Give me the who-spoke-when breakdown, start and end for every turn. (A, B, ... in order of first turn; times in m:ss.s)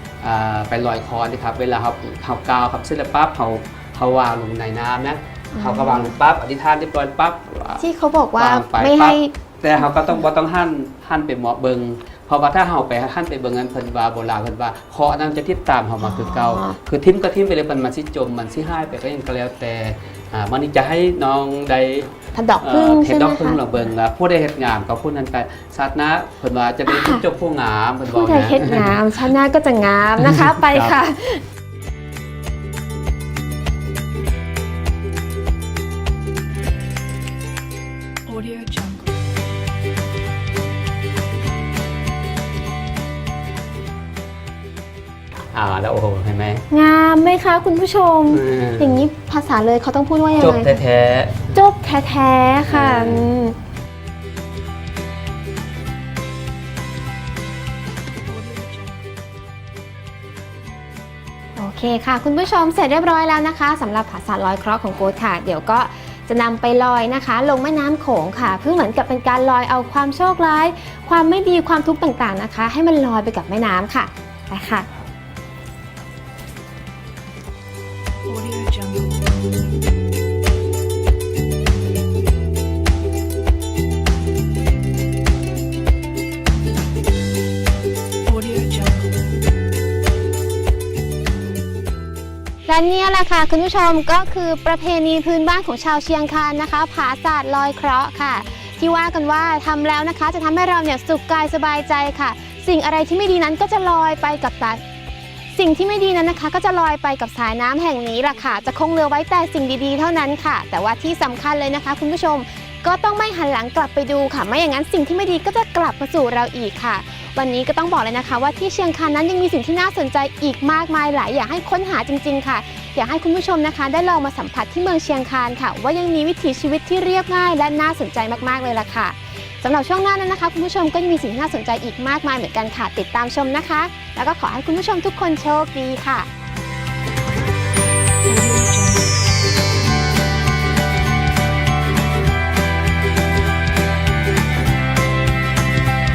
0:00.2-0:29.1 A
0:05.5-0:06.2 B
0:07.8-0:09.3 B
0:16.0-0:16.8 B
0:22.3-0:23.9 B
0:26.9-0:27.2 B
0:28.1-0:31.4 B
0:30.2-0:31.0 A
0:38.3-0:39.1 C
0:45.5-0:46.6 A
0:46.7-0:50.8 B
0:48.3-0:49.1 A
0:50.3-0:51.5 A
0:51.5-0:53.6 B
0:52.6-0:53.3 A
0:58.3-0:59.0 C
1:01.6-1:14.9 B
1:18.3-1:19.1 C
1:28.6-1:29.1 C
1:32.7-1:44.8 B
1:45.5-2:16.3 B
2:18.3-2:19.1 C